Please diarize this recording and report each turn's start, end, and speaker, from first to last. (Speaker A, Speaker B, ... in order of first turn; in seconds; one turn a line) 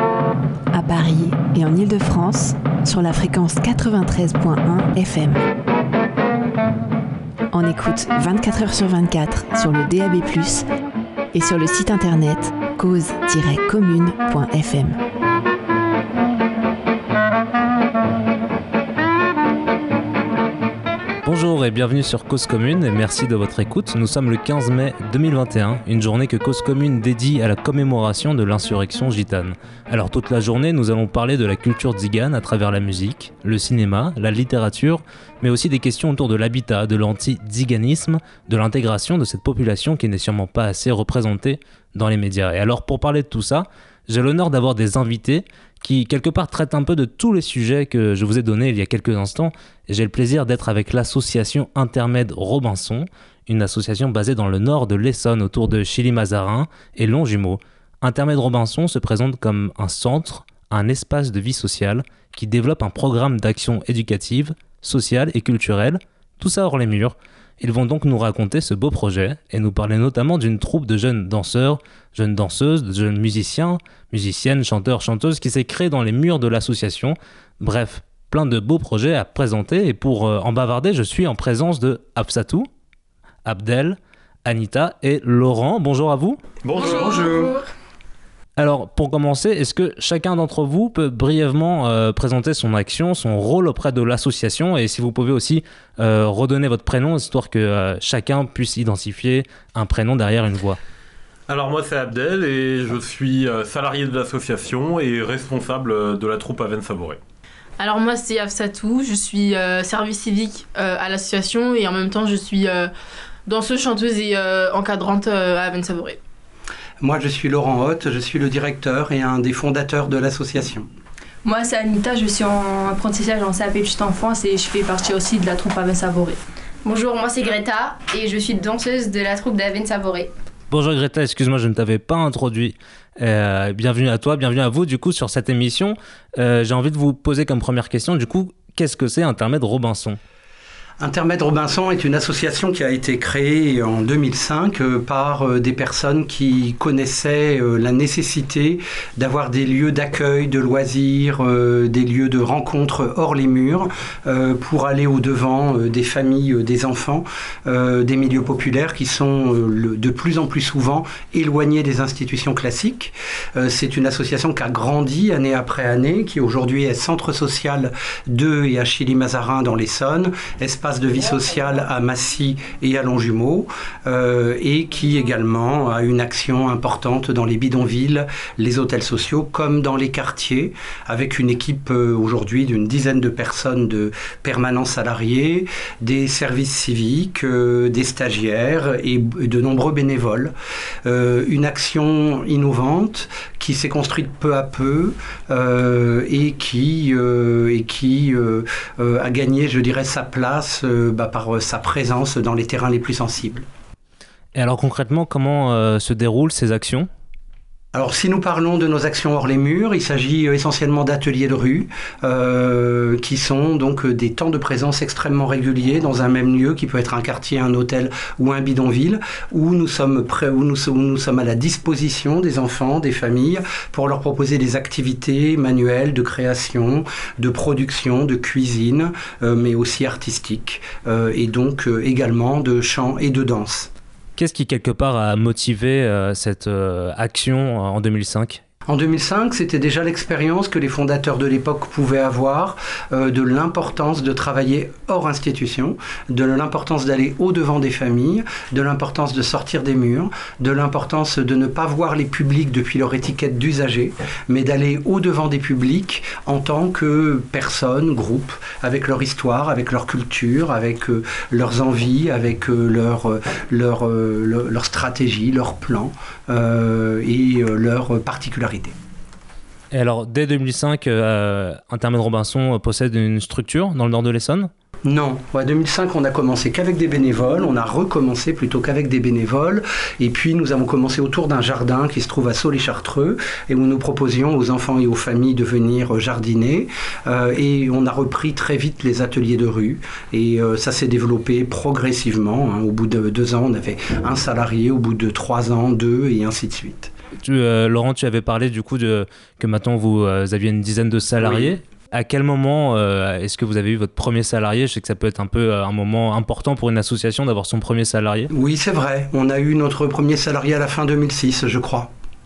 Speaker A: 0.7-5.4
Speaker A: 7.5-10.7
Speaker A: 11.3-15.0
Speaker B: 21.2-82.7
Speaker B: 83.4-86.4
Speaker C: 86.6-87.5
Speaker B: 88.6-100.8
Speaker C: 101.5-107.2
Speaker D: 107.8-112.9
Speaker D: 113.5-116.2
Speaker E: 117.0-120.9
Speaker F: 121.4-126.4
Speaker G: 126.8-130.3
Speaker B: 130.7-140.2
Speaker E: 141.0-190.5
Speaker E: 191.0-203.7
Speaker B: 204.6-207.1
Speaker E: 207.9-233.9
Speaker B: 234.4-238.6
Speaker E: 238.9-268.9
Speaker B: 269.9-274.7
Speaker E: 275.1-297.1
Speaker B: 297.4-308.5
Speaker E: 301.4-301.7
Speaker E: 308.5-312.1